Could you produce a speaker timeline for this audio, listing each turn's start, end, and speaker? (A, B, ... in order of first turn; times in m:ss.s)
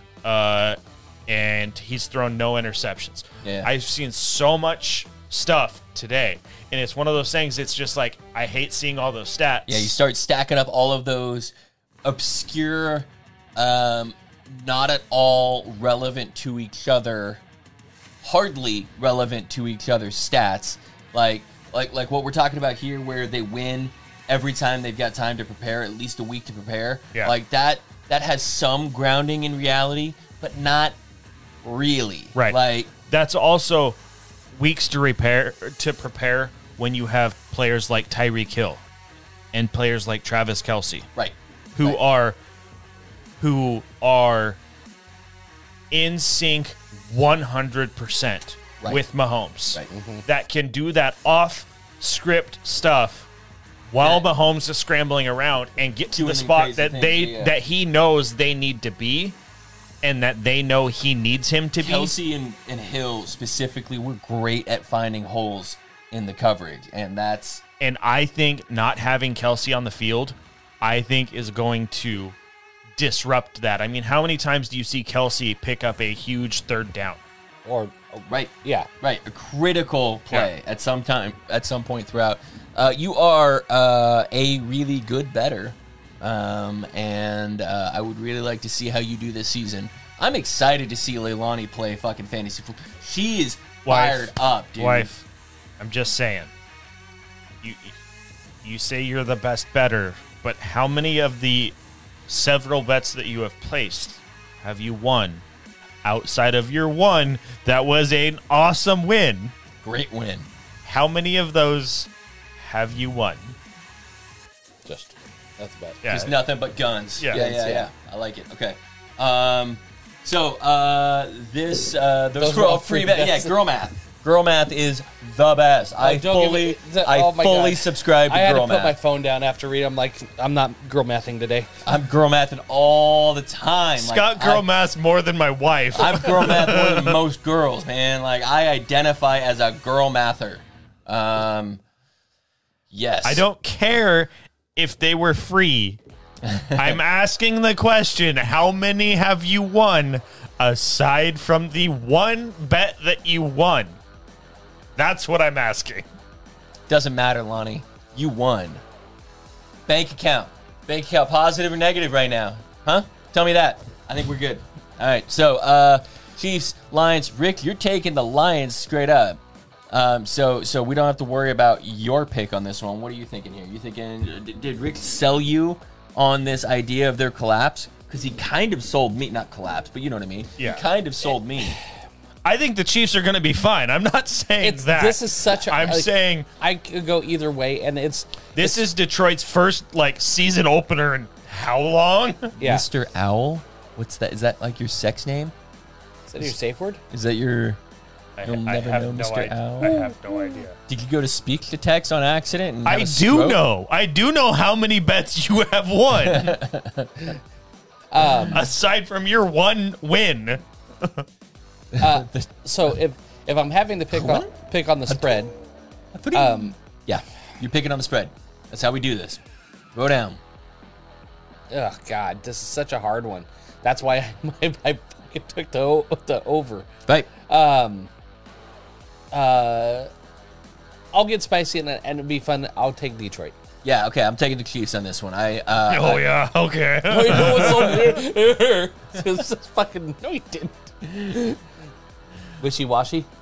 0:00.2-0:09.9 A
0:03.4-0:03.7 B
0:09.7-0:11.5 B
0:12.0-0:17.4 B
0:18.2-0:31.0 B
0:31.6-0:32.9 B
0:32.4-0:34.0 A
0:34.6-0:38.8 A
0:39.5-0:41.1 A
0:41.2-0:42.0 B
0:41.8-0:42.4 A
0:43.4-0:44.6 A
0:45.9-0:53.3 A
0:49.9-0:50.2 C
0:53.9-0:59.4 A
0:54.0-0:54.3 B
0:56.1-0:57.6 B
1:00.0-1:02.1 A
1:01.8-1:07.6 B
1:07.8-1:12.4 A
1:13.0-1:17.2 A
1:17.6-1:18.9 C
1:18.3-1:35.1 B
1:33.8-1:35.2 A
1:35.8-1:36.5 A
1:37.6-1:38.0 A
1:38.6-1:41.7 A
1:42.3-1:45.4 A
1:46.0-1:49.5 A
1:49.8-1:50.5 B
1:50.8-1:53.6 A
1:54.9-1:56.0 C
1:56.0-1:56.3 A
1:56.1-2:09.0 B
1:57.3-1:57.9 C
2:02.4-2:03.6 C
2:06.0-2:11.7 C
2:11.8-2:14.7 B
2:14.0-2:17.2 A
2:15.9-2:21.8 B
2:22.9-2:23.4 B
2:23.2-2:26.0 A
2:26.4-2:27.0 B
2:26.8-2:34.0 A
2:35.0-2:36.1 A
2:36.9-2:38.8 B
2:39.9-2:49.4 B
2:49.9-3:01.8 B
3:00.6-3:00.8 A
3:02.4-3:06.5 A
3:04.6-3:08.8 C
3:08.6-3:12.6 A
3:12.6-3:15.5 B
3:12.6-3:12.8 C
3:16.3-3:17.0 C
3:17.1-3:17.8 B
3:18.4-3:20.8 A
3:18.4-3:20.1 B
3:20.9-3:23.6 B
3:22.8-3:26.6 A
3:26.2-3:27.3 B
3:28.1-3:28.6 C
3:28.5-3:31.3 A
3:31.9-3:32.5 B
3:32.0-3:35.5 C
3:34.1-3:34.5 B
3:35.1-3:35.3 B
3:36.1-3:39.4 B
3:36.3-3:36.8 C
3:39.9-3:40.4 B
3:41.7-3:48.1 C
3:49.3-3:50.1 C
3:51.1-3:53.6 C
3:53.8-3:56.3 B
3:55.9-3:58.1 A
3:57.1-4:01.6 C
3:57.3-3:57.9 B
4:02.6-4:03.3 C